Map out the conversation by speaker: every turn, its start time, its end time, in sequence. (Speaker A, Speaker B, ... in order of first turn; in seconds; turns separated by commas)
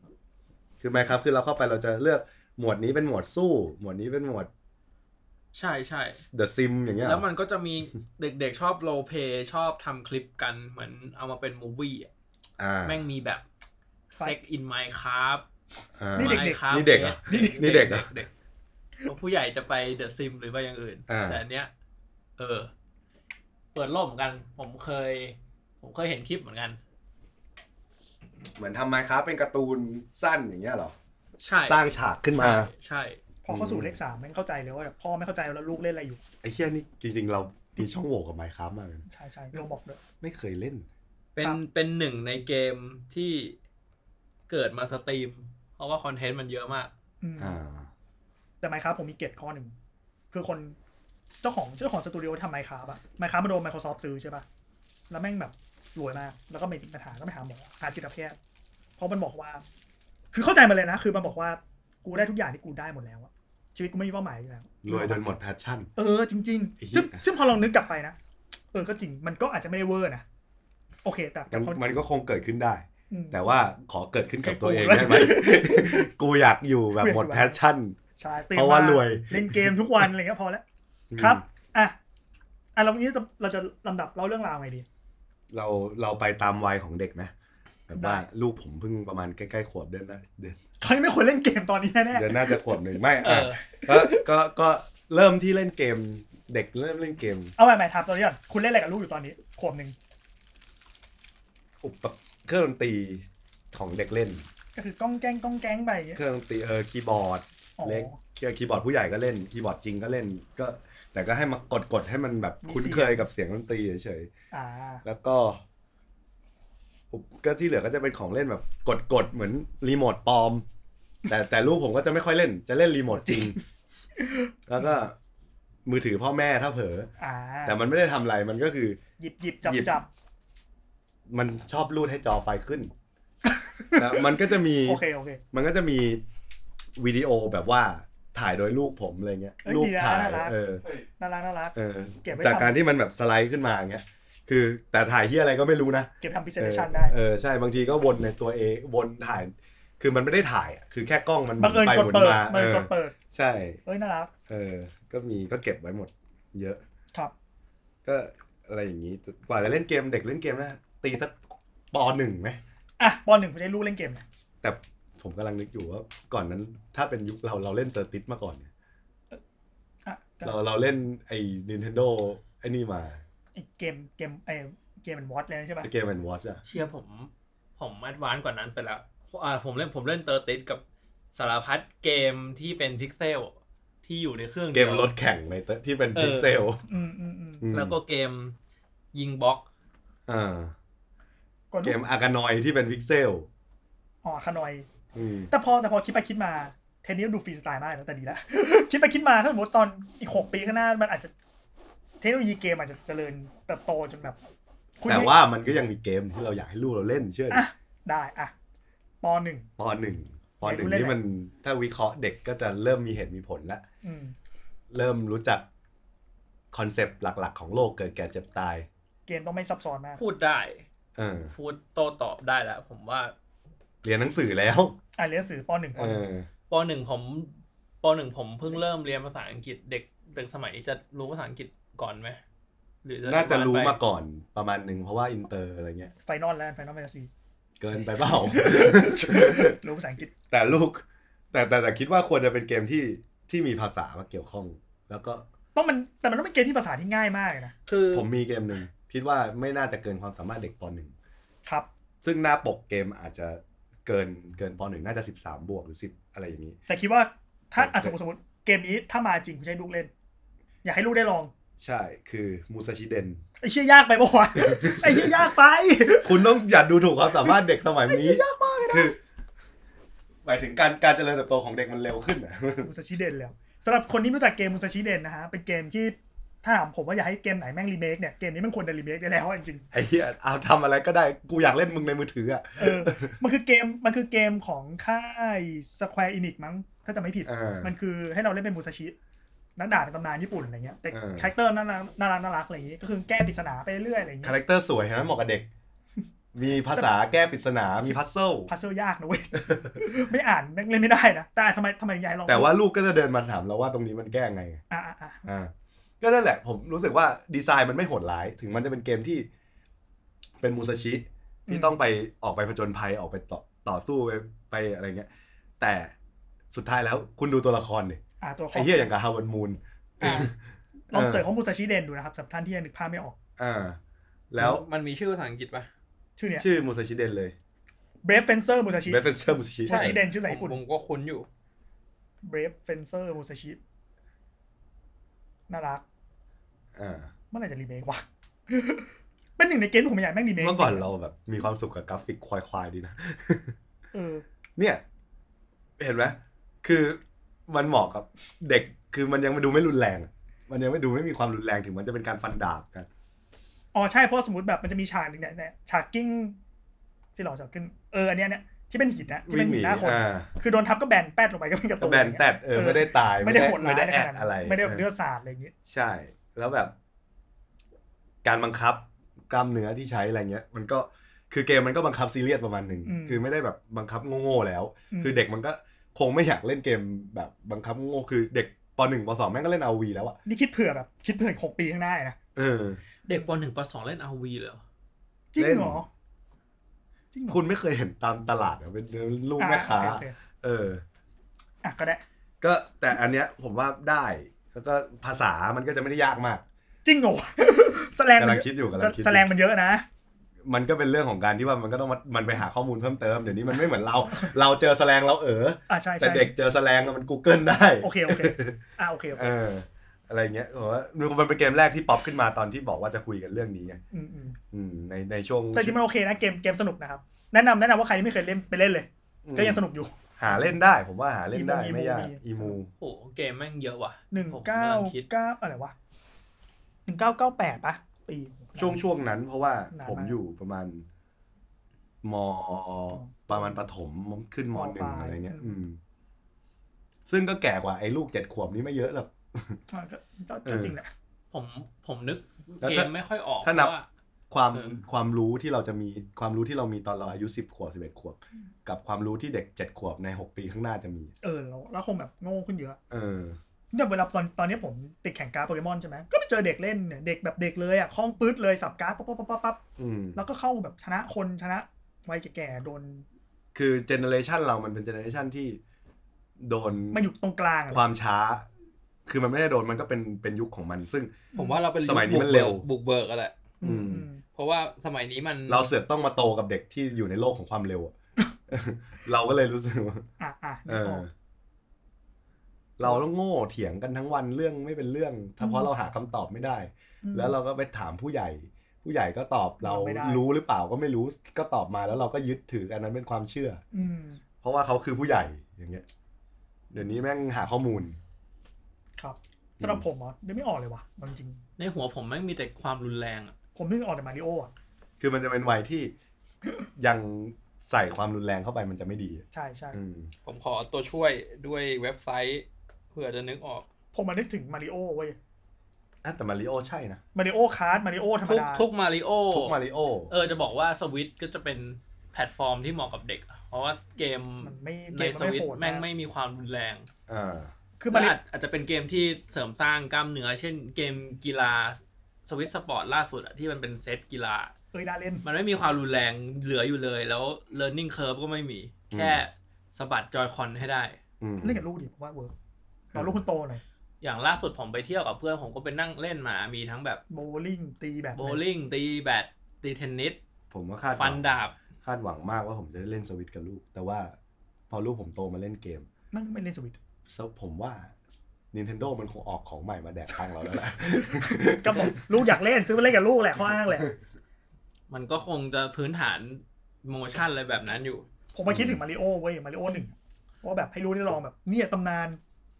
Speaker A: 0.8-4.5, Speaker B: 5.5-6.2, Speaker A: 6.2-7.2, Speaker B: 7.0-12.1, Speaker A: 12.6-13.0, Speaker B: 12.8-13.4, Speaker B: 14.1-15.4, Speaker A: 16.0-18.1, Speaker C: 16.1-16.6, Speaker B: 16.1-18.3, Speaker C: 17.3-17.8, Speaker B: 19.1-21.7, Speaker A: 21.1-21.4, Speaker B: 22.4-22.7, Speaker B: 23.7-26.8, Speaker A: 28.6-30.9, Speaker B: 31.4-31.8, Speaker A: 31.6-32.7, Speaker B: 32.3-33.2, Speaker C: 33.5-36.2, Speaker A: 33.5-34.0, Speaker A: 36.4-39.6, Speaker C: 39.1-40.0, Speaker A: 40.2-40.9, Speaker B: 41.4-43.6, Speaker B: 44.5-46.9, Speaker C: 47.2-47.6, Speaker A: 47.4-47.9, Speaker C: 48.6-49.8, Speaker C: 50.3-50.8, Speaker C: 51.4-54.5, Speaker C: 55.1-58.4, Speaker C: 59.0-59.6, Speaker C: 60.3-65.3, Speaker A: 64.8-65.9, Speaker C: 66.0-68.2, Speaker A: 66.8-67.2, Speaker C: 68.7-70.2, Speaker C: 71.0-71.8, Speaker A: 71.5-78.0, Speaker C: 73.1-73.4, Speaker C: 74.4-76.1, Speaker C: 77.0-77.6, Speaker C: 78.2-80.6, Speaker A: 78.5-80.1, Speaker A: 81.1-81.4, Speaker C: 81.2-82.0, Speaker C: 82.8-84.9, Speaker A: 85.5-87.3, Speaker A: 87.9-90.6, Speaker C: 88.0-88.2, Speaker C: 90.8-92.8, Speaker A: 92.1-97.5, Speaker B: 93.2-93.7, Speaker C: 93.8-94.2, Speaker C: 97.6-100.0, Speaker A: 101.8-104.5, Speaker C: 104.8-106.2, Speaker A: 106.2-114.3, Speaker C: 107.8-108.2, Speaker C: 112.6-113.2, Speaker C: 114.5-115.0, Speaker A: 115.0-115.6, Speaker A: 117.1-120.7, Speaker A: 121.3-123.6, Speaker C: 123.2-123.6, Speaker C: 124.2-124.9, Speaker A: 124.7-125.2, Speaker A: 125.9-127.1, Speaker C: 127.2-127.8, Speaker A: 127.7-129.0, Speaker C: 129.2-130.1, Speaker A: 129.6-130.0, Speaker A: 131.3-132.9, Speaker C: 133.4-135.4, Speaker A: 134.0-136.2, Speaker A: 137.0-140.8, Speaker C: 139.6-140.6, Speaker C: 141.2-142.8, Speaker A: 141.8-153.8, Speaker C: 146.2-147.1, Speaker C: 151.6-153.2, Speaker C: 153.9-154.3, Speaker A: 154.5-156.8, Speaker A: 158.1-162.6, Speaker C: 163.0-164.2, Speaker A: 164.6-168.7, Speaker C: 170.1-170.6, Speaker A: 170.4-173.2, Speaker C: 173.6-175.9, Speaker A: 175.8-176.6, Speaker B: 176.7-180.8, Speaker B: 181.3-185.1, Speaker A: 184.7-186.8, Speaker B: 186.2-186.6, Speaker C: 186.9-187.7, Speaker A: 187.6-187.9, Speaker B: 187.7-188.6, Speaker B: 189.1-189.7, Speaker A: 190.3-190.7, Speaker C: 191.7-192.0, Speaker A: 191.8-193.5, Speaker C: 194.2-194.9, Speaker A: 195.1-195.5, Speaker C: 195.5-201.3, Speaker C: 202.2-204.4, Speaker C: 205.0-205.3, Speaker A: 205.1-207.7, Speaker C: 207.5-208.5, Speaker C: 209.2-209.7, Speaker A: 209.8-213.8, Speaker C: 210.6-211.2, Speaker C: 214.0-214.3, Speaker A: 214.9-215.7, Speaker A: 216.7-218.9, Speaker C: 219.3-220.2, Speaker B: 220.2-220.8, Speaker A: 221.2-221.5, Speaker B: 221.5-223.3, Speaker A: 224.0-225.0, Speaker C: 225.2-226.2, Speaker A: 225.9-226.5, Speaker B: 226.7-232.4, Speaker B: 233.0-234.0, Speaker A: 233.2-236.1, Speaker C: 236.2-237.3, Speaker A: 237.8-239.8, Speaker C: 238.3-240.3, Speaker A: 240.5-245.5, Speaker C: 245.8-247.7, Speaker B: 247.9-248.3, Speaker A: 248.1-251.1, Speaker A: 252.2-256.8, Speaker C: 256.9-260.1, Speaker A: 257.8-258.1, Speaker C: 260.8-261.5, Speaker A: 261.8-263.4, Speaker C: 263.6-266.5, Speaker A: 264.6-265.5, Speaker A: 266.2-269.2, Speaker C: 267.4-269.1, Speaker A: 270.4-272.9, Speaker C: 272.8-279.9, Speaker A: 279.9-283.4, Speaker C: 282.8-289.2, Speaker A: 287.5-287.9, Speaker C: 289.8-294.6, Speaker A: 291.1-291.5, Speaker A: 294.4-295.7, Speaker A: 296.5-298.7, Speaker C: 298.7-302.7, Speaker A: 299.7-300.0, Speaker A: 302.5-304.8, Speaker C: 304.9-305.5, Speaker A: 305.5-309.5, Speaker A: 310.6-315.3, Speaker C: 311.7-312.0, Speaker A: 315.8-316.1, Speaker A: 316.7-318.2, Speaker C: 318.4-319.1, Speaker A: 318.7-320.6, Speaker C: 320.2-320.5, Speaker C: 321.1-323.4, Speaker A: 321.1-321.5, Speaker A: 323.6-324.0, Speaker A: 324.5-324.8, Speaker B: 324.6-325.9, Speaker C: 326.4-326.7, Speaker A: 326.6-327.6, Speaker C: 328.2-330.8, Speaker A: 329.1-330.2, Speaker B: 329.9-331.5, Speaker C: 332.4-333.8, Speaker C: 335.7-336.0, Speaker A: 337.0-337.3, Speaker C: 337.5-341.1, Speaker A: 340.6-343.8, Speaker C: 344.1-344.4, Speaker A: 344.8-345.0, Speaker A: 346.0-353.1, Speaker C: 353.9-356.6, Speaker C: 357.4-365.7, Speaker A: 359.5-360.5, Speaker A: 362.0-365.1, Speaker A: 365.9-366.9, Speaker A: 368.4-380.4, Speaker C: 373.1-373.4, Speaker C: 375.1-375.4, Speaker C: 380.5-382.4, Speaker A: 382.6-383.0, Speaker B: 383.3-384.8, Speaker C: 385.5-386.1, Speaker A: 385.6-386.0, Speaker C: 387.3-387.6, Speaker A: 387.5-391.0, Speaker C: 389.6-390.4, Speaker C: 391.8-392.2, Speaker A: 392.6-396.6, Speaker C: 397.1-400.1, Speaker A: 398.4-399.5, Speaker A: 400.6-408.8, Speaker C: 404.3-404.5, Speaker C: 405.9-406.5, Speaker C: 408.0-409.5, Speaker A: 409.4-414.0, Speaker C: 414.1-414.6, Speaker A: 414.7-416.0, Speaker C: 415.7-420.8, Speaker A: 419.4-419.8, Speaker A: 420.4-422.9, Speaker C: 421.5-422.8, Speaker B: 423.0-425.2, Speaker C: 424.3-425.9, Speaker C: 427.1-429.0, Speaker A: 428.8-431.1, Speaker C: 429.9-430.4, Speaker A: 432.2-436.0, Speaker C: 433.1-433.8, Speaker C: 434.7-435.7, Speaker A: 437.3-439.8, Speaker C: 439.9-441.1, Speaker A: 440.7-440.9, Speaker B: 441.5-444.1, Speaker A: 442.8-443.1, Speaker A: 443.6-443.9, Speaker A: 444.5-451.3, Speaker C: 451.4-453.0, Speaker A: 453.1-453.6, Speaker C: 453.9-459.8, Speaker A: 460.0-460.4, Speaker C: 460.4-463.2, Speaker A: 463.8-465.8, Speaker A: 466.6-467.2, Speaker C: 467.1-468.0, Speaker A: 467.9-468.7, Speaker A: 469.3-471.4, Speaker C: 471.5-471.8, Speaker B: 471.6-473.6, Speaker A: 472.0-472.9, Speaker C: 473.8-474.4, Speaker A: 473.8-474.2, Speaker B: 474.6-475.9, Speaker A: 475.7-478.1, Speaker A: 478.7-480.3, Speaker C: 480.4-481.2, Speaker A: 480.9-481.3, Speaker A: 483.0-493.8, Speaker C: 485.6-485.9, Speaker C: 487.2-487.6, Speaker C: 489.8-490.4, Speaker C: 493.9-494.4, Speaker A: 494.6-496.1, Speaker A: 496.9-498.2, Speaker C: 499.2-501.6, Speaker B: 501.8-503.6, Speaker C: 503.8-504.7, Speaker A: 505.2-506.1, Speaker A: 507.0-510.3, Speaker C: 509.5-510.0, Speaker B: 510.4-513.9, Speaker C: 514.1-515.4, Speaker A: 516.2-517.2, Speaker C: 517.4-518.9, Speaker B: 518.4-519.8, Speaker A: 519.5-520.3, Speaker B: 520.3-527.1, Speaker C: 524.6-526.0, Speaker A: 527.3-527.7, Speaker C: 528.0-528.4, Speaker B: 528.1-534.7, Speaker C: 534.9-535.5, Speaker B: 535.4-541.2, Speaker A: 539.1-539.4, Speaker A: 541.4-541.8, Speaker C: 541.6-542.5, Speaker C: 543.1-543.8, Speaker A: 543.1-543.4, Speaker B: 544.2-547.2, Speaker C: 547.3-548.6, Speaker B: 548.4-550.4, Speaker A: 550.7-551.4, Speaker B: 551.1-551.8, Speaker A: 552.0-554.4, Speaker A: 554.9-556.1, Speaker C: 556.3-557.0, Speaker A: 557.3-562.5, Speaker C: 561.1-564.1, Speaker B: 565.1-568.3, Speaker C: 568.5-572.4, Speaker A: 568.7-569.0